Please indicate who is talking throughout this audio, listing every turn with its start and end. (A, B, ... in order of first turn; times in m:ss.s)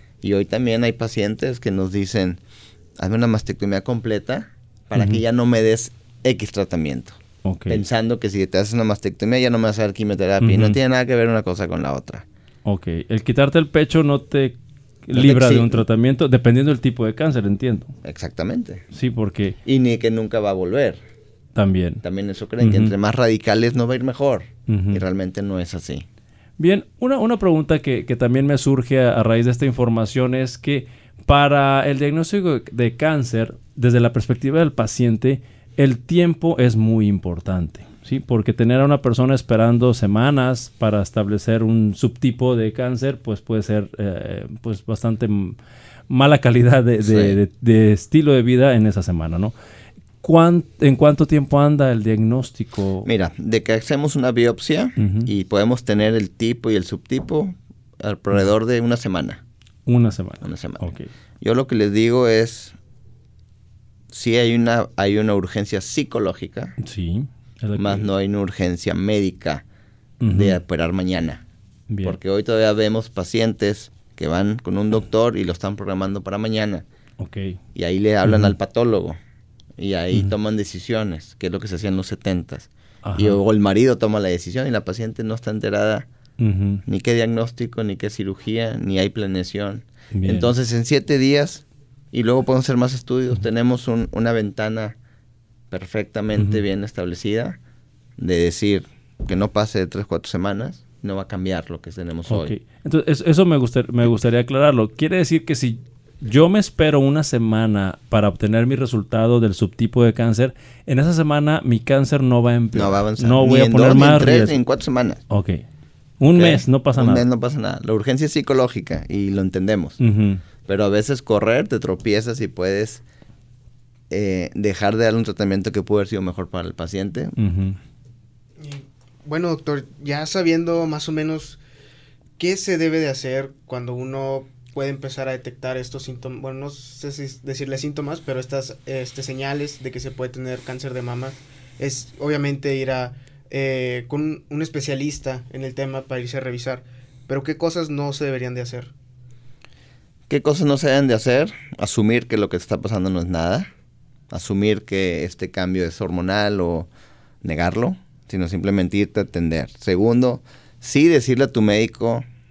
0:00.2-0:02.4 A
0:03.0-0:12.2 A
0:05.0-0:05.2 B
0:07.4-0:07.8 B
0:10.4-0:10.8 B
0:12.7-0:18.0 B
0:15.1-0:15.8 A
0:18.0-0:18.8 A
0:18.9-0:19.6 B
0:19.6-0:21.0 A
0:21.6-0:22.0 B
0:22.0-0:26.1 A
0:22.6-0:22.9 B
0:24.7-0:25.0 B
0:26.6-0:45.6 B
0:46.1-0:49.5 B
0:47.0-0:47.4 A
0:50.2-0:53.1 B
0:53.0-0:59.4 A
0:55.0-0:55.3 B
0:59.9-1:01.1 B
1:00.4-1:00.9 A
1:01.4-1:02.8 A
1:04.1-1:06.8 A
1:06.8-1:08.0 B
1:07.8-1:09.6 A
1:10.2-1:10.6 B
1:10.3-1:11.4 A
1:11.9-1:12.2 B
1:12.0-1:16.8 A
1:17.2-1:17.6 B
1:17.8-1:19.2 A
1:18.2-1:18.5 B
1:19.8-1:26.1 A
1:23.0-1:23.4 B
1:26.4-1:26.8 B
1:26.9-1:35.0 A
1:30.1-1:30.5 B
1:35.7-1:37.6 A
1:38.2-1:42.5 A
1:42.3-1:54.6 B
1:52.7-1:55.2 A
1:55.3-1:55.6 B
1:56.2-1:57.2 B
1:56.4-2:00.0 A
2:00.0-2:00.4 B
2:00.6-2:03.0 A
2:04.1-2:07.4 A
2:07.4-2:07.8 B
2:08.6-2:11.6 C
2:12.4-2:28.9 C
2:30.3-2:33.7 A
2:34.3-2:36.9 A
2:37.4-2:42.2 A